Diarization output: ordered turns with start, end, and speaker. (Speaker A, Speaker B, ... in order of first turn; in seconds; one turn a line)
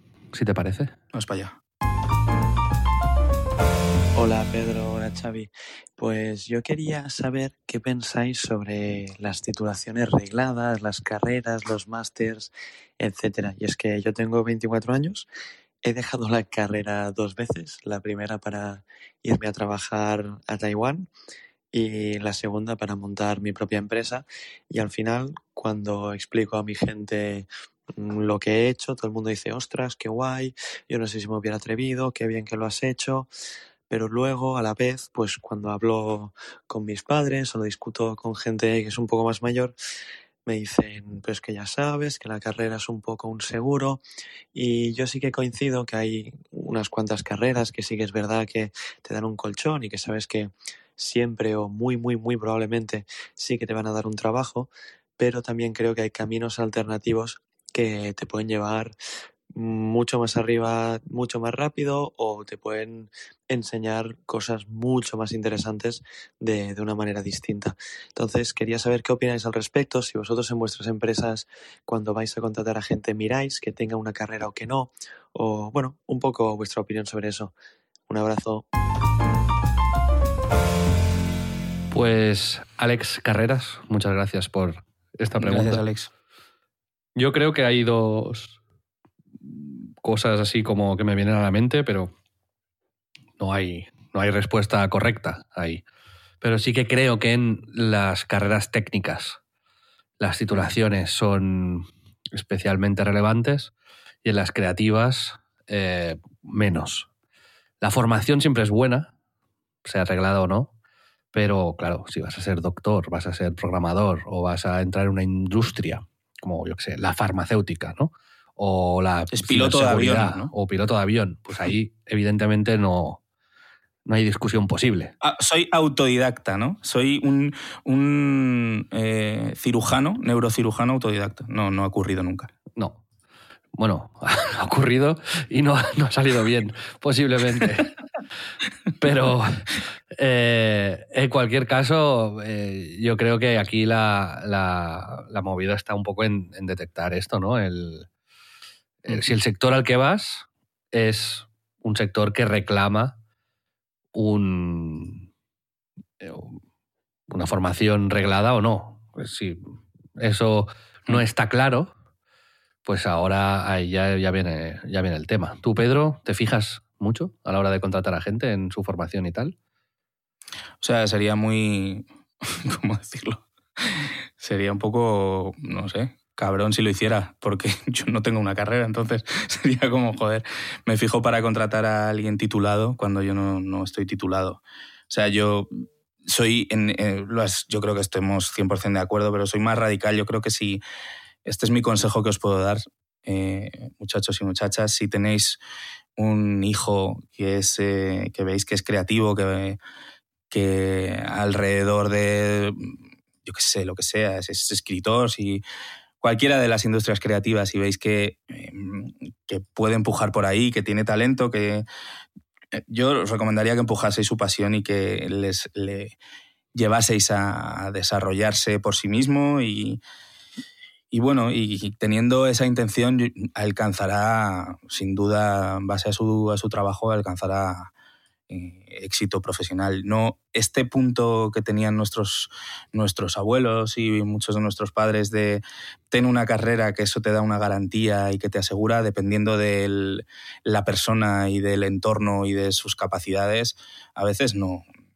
Speaker A: 0.3-0.9
Speaker B: 1.1-1.6
Speaker C: 4.1-15.3
Speaker C: 15.8-21.1
Speaker C: 21.7-33.3
Speaker C: 33.9-39.7
Speaker C: 40.5-44.0
Speaker C: 44.5-58.9
Speaker C: 59.5-77.5
Speaker C: 78.1-78.6
Speaker A: 81.9-85.8
Speaker B: 85.4-86.1
Speaker A: 87.2-88.6
Speaker A: 89.4-92.1
Speaker A: 93.4-95.8
Speaker A: 96.4-99.4
Speaker A: 100.2-103.7
Speaker A: 104.2-107.1
Speaker A: 107.8-109.1
Speaker A: 109.8-110.7
Speaker A: 111.3-123.2
Speaker B: 119.3-120.5
Speaker A: 124.1-125.1
Speaker B: 125.2-132.5
Speaker A: 132.8-133.0
Speaker A: 133.7-137.9
Speaker A: 139.0-148.1
Speaker A: 149.0-153.1
Speaker A: 154.1-155.2
Speaker A: 156.2-156.6
Speaker A: 157.3-161.9
Speaker A: 162.8-169.5
Speaker B: 170.8-190.8
Speaker B: 191.4-195.6
Speaker B: 196.2-199.8
Speaker B: 200.5-205.6
Speaker B: 206.2-211.8
Speaker B: 212.7-216.2
Speaker B: 216.7-220.0
Speaker B: 221.1-227.9
Speaker B: 228.5-244.8